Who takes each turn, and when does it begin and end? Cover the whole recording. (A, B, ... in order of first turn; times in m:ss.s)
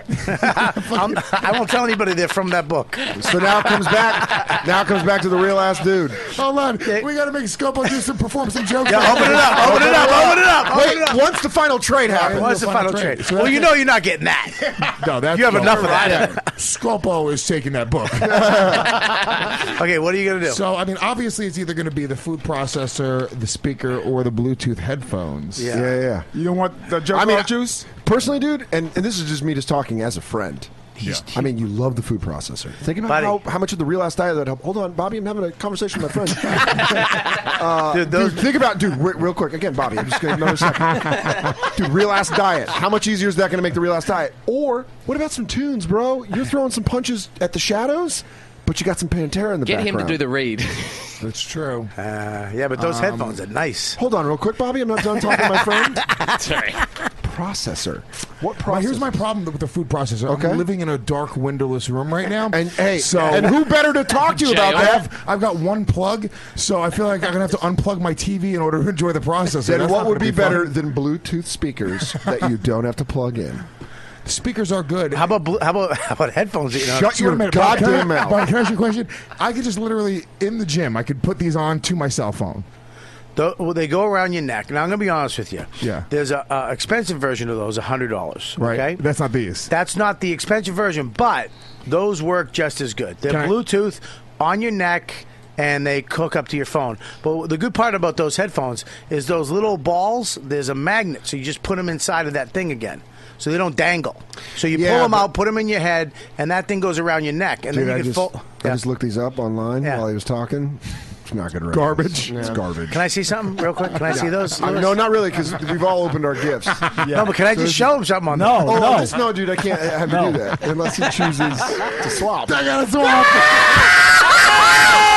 0:00.2-0:04.0 A
0:00.2-0:01.4 B
0:03.1-0:06.3 C
0:06.2-0:10.3 B
0:06.8-0:07.1 A
0:08.8-0:11.2 A
0:09.2-0:12.5 C
0:12.1-0:13.8 B
0:12.3-0:16.4 A
0:14.8-0:18.9 B
0:18.2-0:19.0 C
0:19.0-0:20.6 A
0:20.4-0:25.8 B
0:25.6-0:25.9 A
0:25.7-0:26.3 C
0:26.3-0:27.9 D
0:27.1-0:30.7 C
0:31.0-0:31.4 A
0:31.3-0:50.2 C
0:33.1-0:33.4 A
0:37.9-0:38.5 A
0:49.6-0:51.2 E
0:51.2-0:51.9 B
0:52.0-0:54.0 A
0:52.8-0:53.4 B
0:54.0-0:56.0 C
0:55.4-0:56.3 A
0:56.3-0:56.8 E
0:57.2-0:59.1 C
0:58.6-1:10.7 B
1:00.3-1:00.6 C
1:02.5-1:05.0 C
1:04.4-1:05.0 E
1:09.6-1:13.6 C
1:14.2-1:15.3 B
1:15.1-1:17.6 A
1:16.9-1:18.5 C
1:17.0-1:22.6 B
1:23.4-1:29.0 A
1:25.8-1:26.1 B
1:28.6-1:29.7 B
1:29.7-1:48.8 A
1:33.3-1:33.6 B
1:44.7-1:45.3 C
1:47.7-1:53.0 C
1:51.7-1:52.5 B
1:52.9-1:55.1 A
1:54.0-1:58.0 C
1:57.1-1:59.0 A
1:58.3-1:59.2 D
1:58.6-2:02.6 C
2:00.0-2:00.4 D
2:02.4-2:03.9 B